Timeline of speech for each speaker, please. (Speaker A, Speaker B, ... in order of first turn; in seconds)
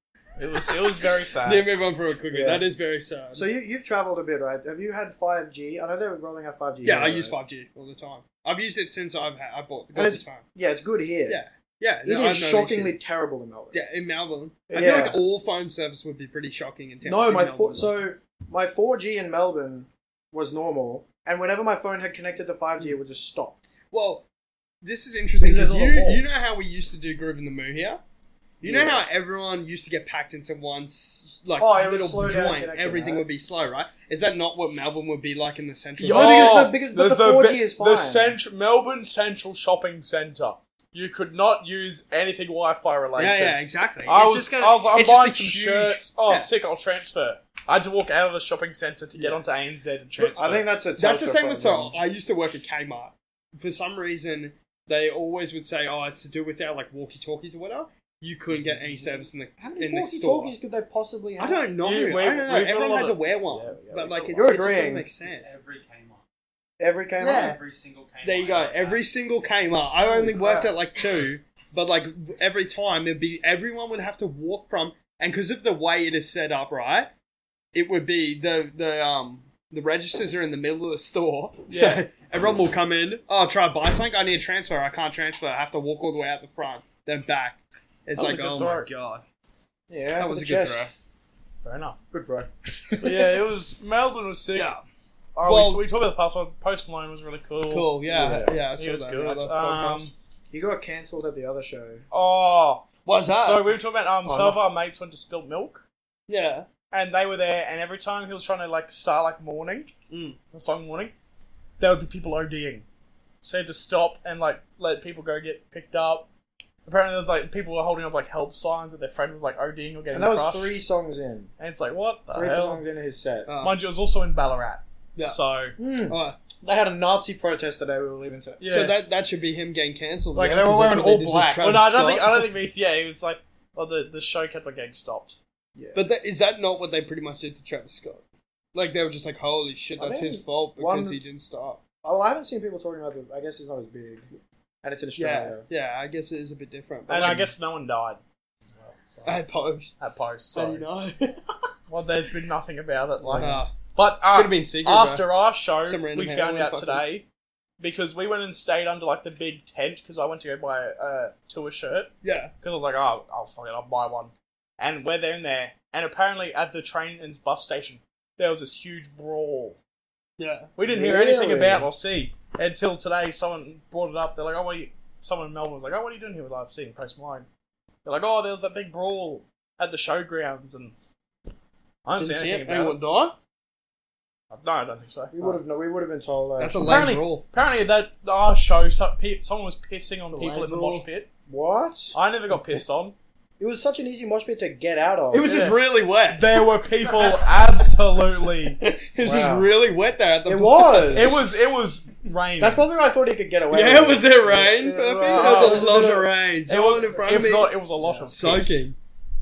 Speaker A: 0.3-1.6, 14.7-15.1, 36.0-50.7, 61.8-64.4, 81.7-82.0, 88.2-88.9, 91.6-92.0, 93.0-94.7, 95.3-98.0, 98.8-100.1, 102.1-105.8, 106.9-109.9, 110.5-111.1, 111.8-112.8, 113.4-116.3, 116.8-120.8, 121.6-122.8, 123.6-125.8, 128.6-128.9, 131.6-135.4, 147.1-149.4, 150.0-150.9, 151.9-157.2, 157.8-169.8, 170.8-177.5, 178.0-180.9, 182.1-183.0, 184.5-185.6, 186.8-191.3, 192.1-193.1, 195.4-195.8, 196.3-198.8, 201.1-202.8, 204.8-206.1, 206.7-208.9
Speaker B: 1.4-3.5, 6.8-10.4, 11.3-12.9, 13.7-17.9, 23.9-24.2, 24.8-28.0, 28.6-36.7, 43.2-46.5, 51.0-60.5, 61.4-65.5, 68.2-77.1, 77.7-89.2, 90.2-90.9, 94.5-94.8, 95.4-95.8, 97.7-100.0, 103.0-103.7, 106.3-106.7, 110.1-110.4, 123.5-123.8, 126.1-126.4, 128.7-132.5, 135.9-138.2, 138.7-141.8, 145.2-147.5, 149.2-149.9, 150.5-151.4, 153.4-153.7, 154.3-155.3, 155.8-157.0, 162.2-162.5, 170.4-170.7, 182.2-183.3, 186.6-187.4, 190.3-191.1, 195.3-196.5, 197.0-197.4, 198.8-201.4, 203.7-207.7, 208.3-208.9
Speaker C: 2.3-2.6, 3.3-7.3, 9.9-11.4, 12.0-13.8, 14.7-15.2, 17.0-23.6, 25.4-26.4, 28.6-29.0, 31.6-33.2, 36.0-38.4, 44.1-44.8, 50.2-52.0, 59.0-61.6, 64.3-65.1, 66.8-67.6, 70.0-70.7, 89.9-90.9, 92.1-93.4, 98.1-98.6, 100.5-102.0, 104.2-104.6, 120.1-121.5, 122.3-123.5, 125.8-128.6, 130.3-131.8, 135.8-136.0, 140.0-141.2, 142.0-144.3, 144.8-145.7, 153.2-153.6, 170.9-171.9, 185.3-186.9, 191.5-192.2, 193.6-195.6, 199.2-199.7, 200.4-201.4, 202.6-206.3, 208.0-208.3
Speaker D: 65.2-66.2, 67.2-69.0